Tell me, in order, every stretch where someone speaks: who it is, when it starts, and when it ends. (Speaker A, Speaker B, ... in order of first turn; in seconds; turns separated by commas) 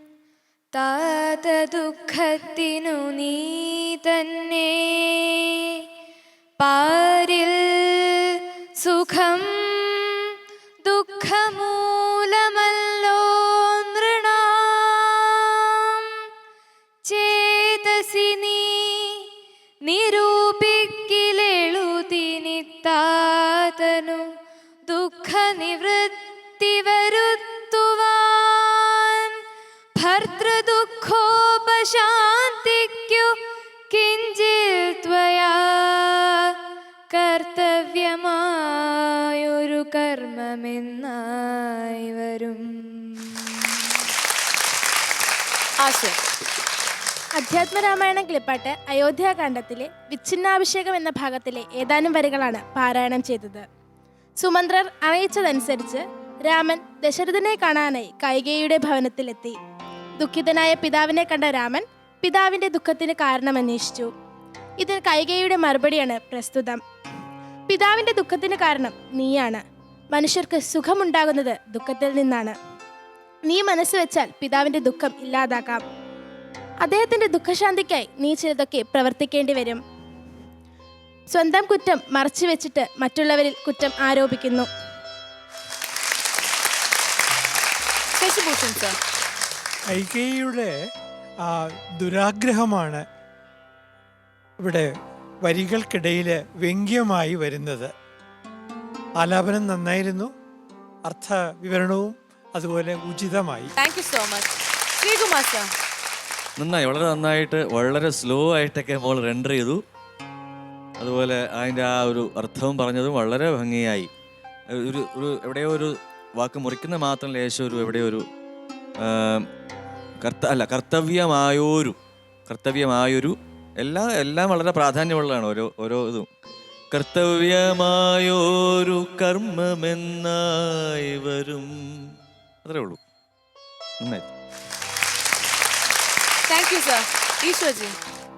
Speaker A: 0.7-5.4, Speaker A: 6.6-10.1, Speaker A: 10.8-15.3, Speaker A: 17.0-19.2, Speaker A: 19.8-24.2, Speaker A: 24.9-29.3, Speaker A: 29.9-33.4, Speaker A: 33.9-36.5, Speaker A: 37.1-43.4, Speaker B: 45.8-46.2, Speaker C: 47.4-53.6, Speaker C: 54.4-59.5, Speaker C: 60.2-64.1, Speaker C: 64.8-66.8, Speaker C: 67.7-69.6, Speaker C: 70.1-72.5, Speaker C: 73.5-75.8, Speaker C: 76.8-79.8, Speaker C: 81.3-84.7, Speaker B: 88.2-89.0, Speaker D: 89.9-90.7, Speaker D: 91.5-93.0, Speaker D: 94.6-94.9, Speaker D: 95.5-97.9, Speaker D: 99.2-100.3, Speaker D: 101.1-103.7, Speaker B: 103.8-105.7, Speaker E: 106.6-109.8, Speaker E: 111.0-114.1, Speaker E: 114.7-118.3, Speaker E: 119.0-119.5, Speaker E: 120.2-122.0, Speaker E: 122.5-126.3, Speaker E: 126.9-131.7, Speaker E: 132.6-133.0, Speaker E: 134.0-134.3, Speaker B: 136.5-138.0